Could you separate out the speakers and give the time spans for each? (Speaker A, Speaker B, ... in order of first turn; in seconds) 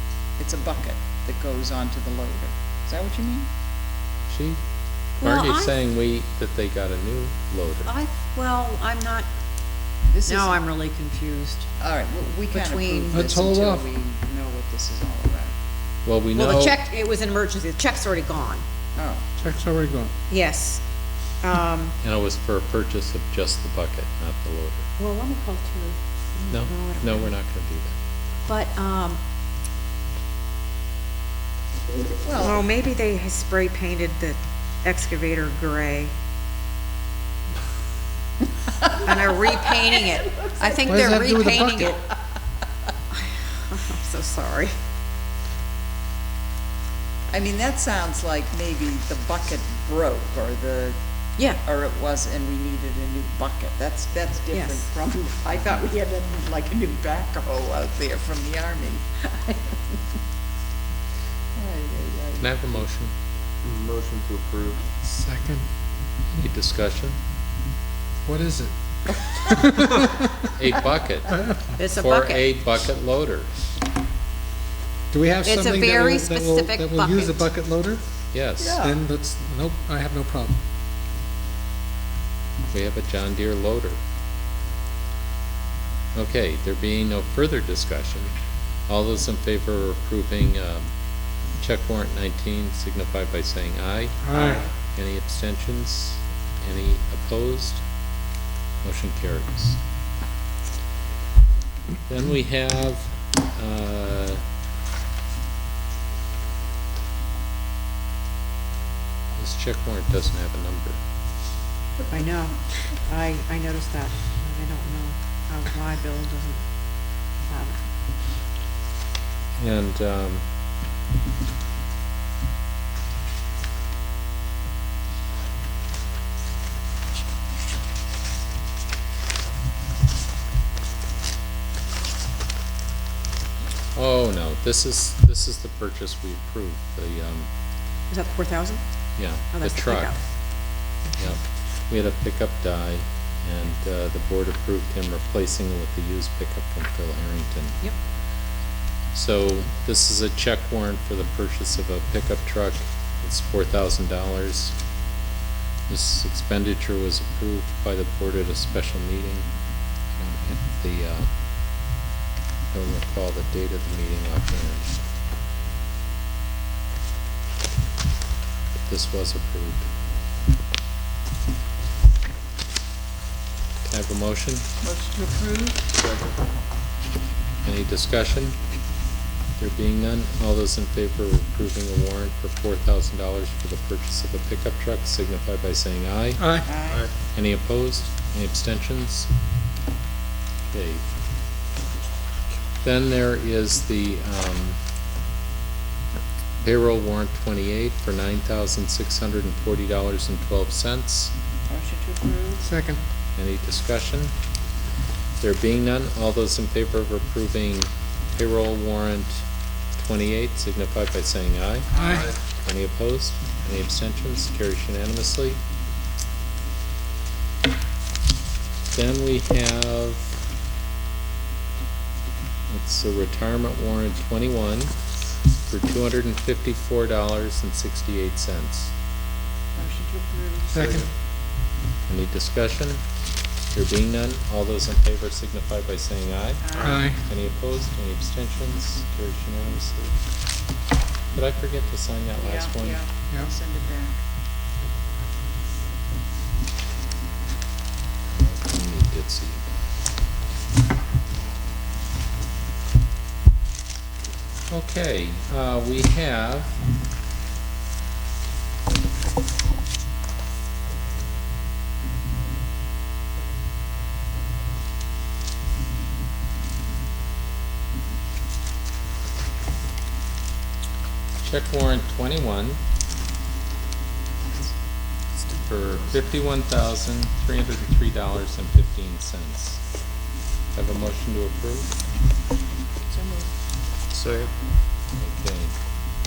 Speaker A: 0.4-3.5, 10.1-10.6, 11.8-15.6, 19.0-19.2, 32.2-32.6, 38.6-41.2, 47.3-51.0, 51.6-59.8, 61.5-62.6, 78.6-79.0, 94.3-94.7, 174.8-175.9, 186.6-187.1, 201.7-202.7, 211.9-212.3, 229.8-231.0, 236.6-237.1, 242.4-244.2, 283.1-283.5
Speaker B: 4.3-4.6, 5.2-7.9, 16.1-16.8, 22.0-24.9, 26.5-27.9, 62.4-63.1, 66.3-67.2, 70.5-73.5, 78.3-78.8, 82.7-84.0, 86.1-88.3, 88.9-90.9, 91.6-97.8, 98.8-99.8, 102.1-104.4, 109.4-111.0, 119.5-120.4, 133.9-137.5, 139.2-140.1, 141.2-147.8, 149.1-154.8, 155.9-159.5, 160.1-161.3, 162.7-164.9, 168.9-169.8, 173.9-174.6, 177.7-178.6, 179.6-186.4, 187.3-189.3, 190.7-191.0, 192.8-194.8, 196.6-201.3, 203.3-204.3, 205.4-209.4, 210.0-211.9, 212.6-215.6, 218.9-220.4, 222.7-224.9, 225.7-228.9, 232.1-233.0, 233.7-240.2, 241.3-243.0, 248.3-249.6, 254.7-256.8, 271.4-272.8, 275.6-279.8, 280.8-281.9, 285.2-285.7
Speaker C: 5.2-5.8, 7.8-9.3, 10.2-11.7, 12.5-13.3, 16.4-18.6, 20.3-20.8, 21.4-22.0, 25.0-27.3, 28.5-29.2, 32.4-36.1, 38.9-42.0, 43.7-44.8, 54.5-54.8, 71.8-72.5, 75.4-77.5, 112.1-116.6, 117.5-117.8, 138.1-138.8, 139.5-140.2
Speaker D: 13.1-13.9, 19.4-20.1, 40.9-42.0, 65.0-65.7, 68.2-70.5, 71.4-71.7, 75.1-78.0, 78.8-80.6, 94.2-94.6, 186.4-186.7, 202.6-203.0, 211.9-212.3, 230.7-231.1, 236.8-237.2
Speaker E: 63.6-64.8, 176.0-176.3, 284.1-284.5